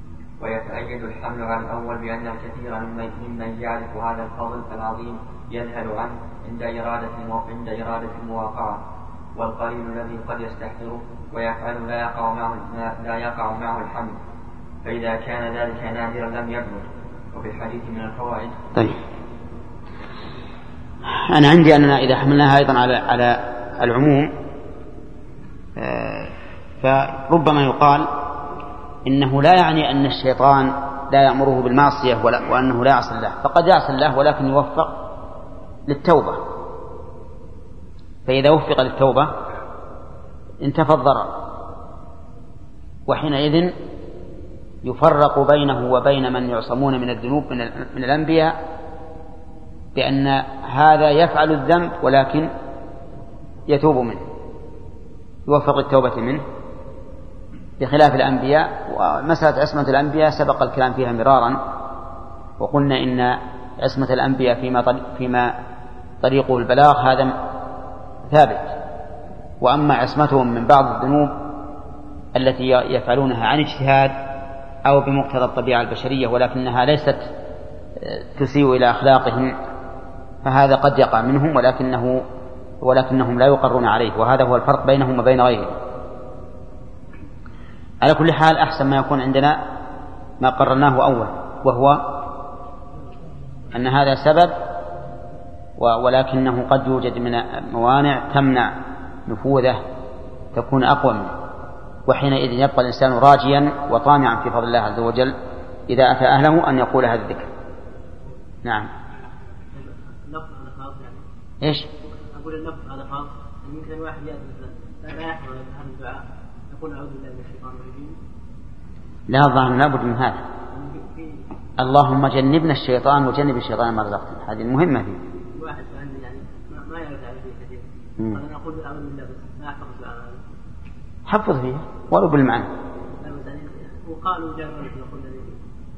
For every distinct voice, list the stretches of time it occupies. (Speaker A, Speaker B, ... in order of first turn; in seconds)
Speaker A: 0.4-8.8, 9.3-14.2, 14.8-18.6
Speaker B: 21.1-24.3, 25.8-28.1, 29.1-34.9, 35.9-36.4, 38.2-39.3, 40.6-41.3, 43.1-43.7, 44.8-48.6, 50.0-52.5, 53.7-54.2, 55.5-56.4, 57.8-61.6, 62.6-65.5, 66.2-67.3, 68.3-68.7, 69.6-71.3, 72.3-74.2, 74.8-77.3, 78.0-79.5, 80.4-82.2, 82.8-85.8, 88.0-89.6, 90.4-92.1, 93.7-94.5, 95.8-98.7, 99.3-99.8, 100.5-101.3, 102.0-105.3, 105.9-107.5, 108.6-108.9, 111.6-111.9, 119.3-120.4, 121.8-125.2, 131.3-132.7
Speaker C: 109.7-111.2, 112.3-118.2, 120.7-121.4, 125.5-130.4, 133.2-135.6